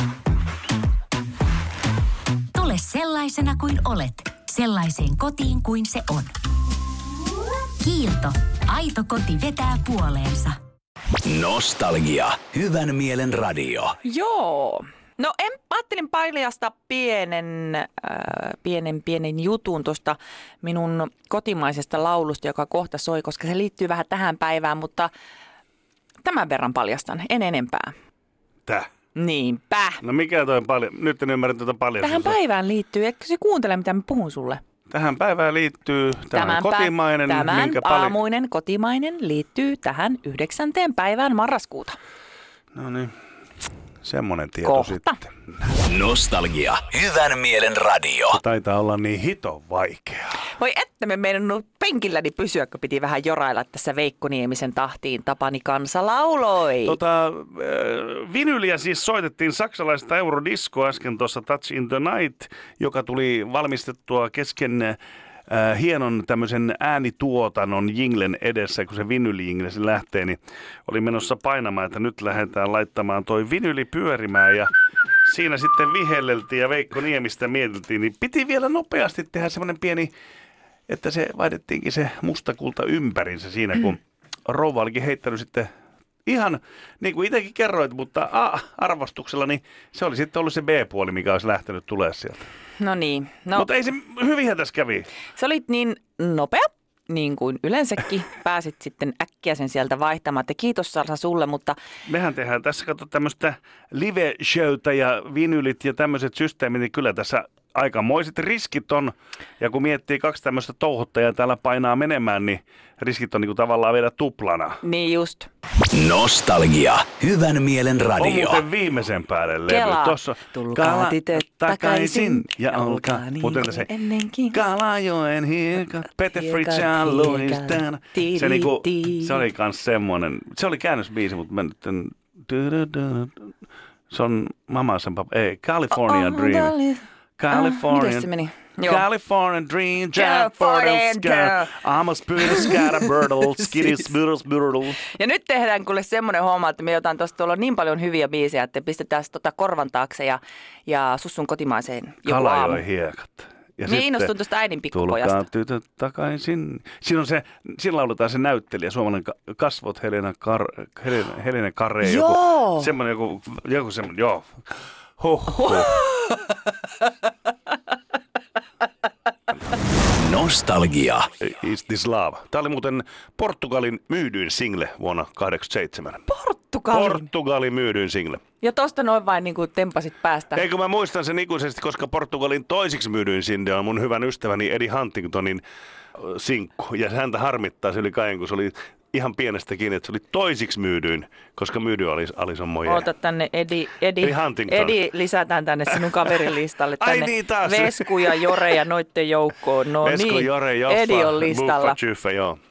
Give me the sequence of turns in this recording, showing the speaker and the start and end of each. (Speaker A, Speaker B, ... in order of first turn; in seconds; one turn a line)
Speaker A: 2.5-6.3
Speaker A: 7.8-10.6
Speaker B: 11.2-13.9
Speaker C: 14.0-25.1
Speaker C: 26.2-27.9
Speaker C: 29.1-30.0
Speaker D: 30.0-32.4
Speaker C: 32.0-34.6
Speaker D: 34.9-38.2
Speaker C: 36.3-42.0
Speaker D: 42.7-43.1
Speaker D: 44.0-45.5
Speaker C: 44.6-45.2
Speaker B: 45.8-48.4
Speaker D: 48.3-50.4
Speaker C: 50.5-57.0
Speaker D: 56.8-74.7
Speaker D: 75.2-80.1
Speaker D: 80.9-85.7
Speaker D: 86.2-92.5
Speaker C: 92.8-93.7
Speaker D: 93.5-95.1
Speaker C: 95.3-101.8
Speaker D: 102.1-114.8
Speaker C: 114.8-115.5
Speaker B: 115.9-118.6
Speaker D: 118.2-123.9
Speaker C: 119.7-124.6
Speaker D: 124.5-133.5
Speaker C: 126.3-129.4
Speaker D: 134.1-136.8
Speaker C: 135.9-139.0
Speaker D: 137.4-138.3
Speaker D: 138.8-145.0
Speaker C: 140.1-141.7
Speaker C: 142.4-142.8
Speaker C: 145.1-152.8
Speaker D: 152.2-154.3
Speaker C: 153.8-155.4
Speaker D: 154.9-164.5
Speaker C: 162.0-162.9
Speaker D: 165.2-166.0
Speaker C: 165.6-166.4
Speaker B: 170.1-171.3
Speaker D: 171.4-176.3
Speaker C: 176.3-177.3
Speaker D: 176.9-178.4
Speaker C: 178.6-180.6
Speaker D: 180.5-185.6
Speaker D: 186.2-193.1
Speaker C: 192.8-202.0
Speaker D: 194.2-195.0
Speaker D: 197.0-198.7
Speaker D: 200.0-202.6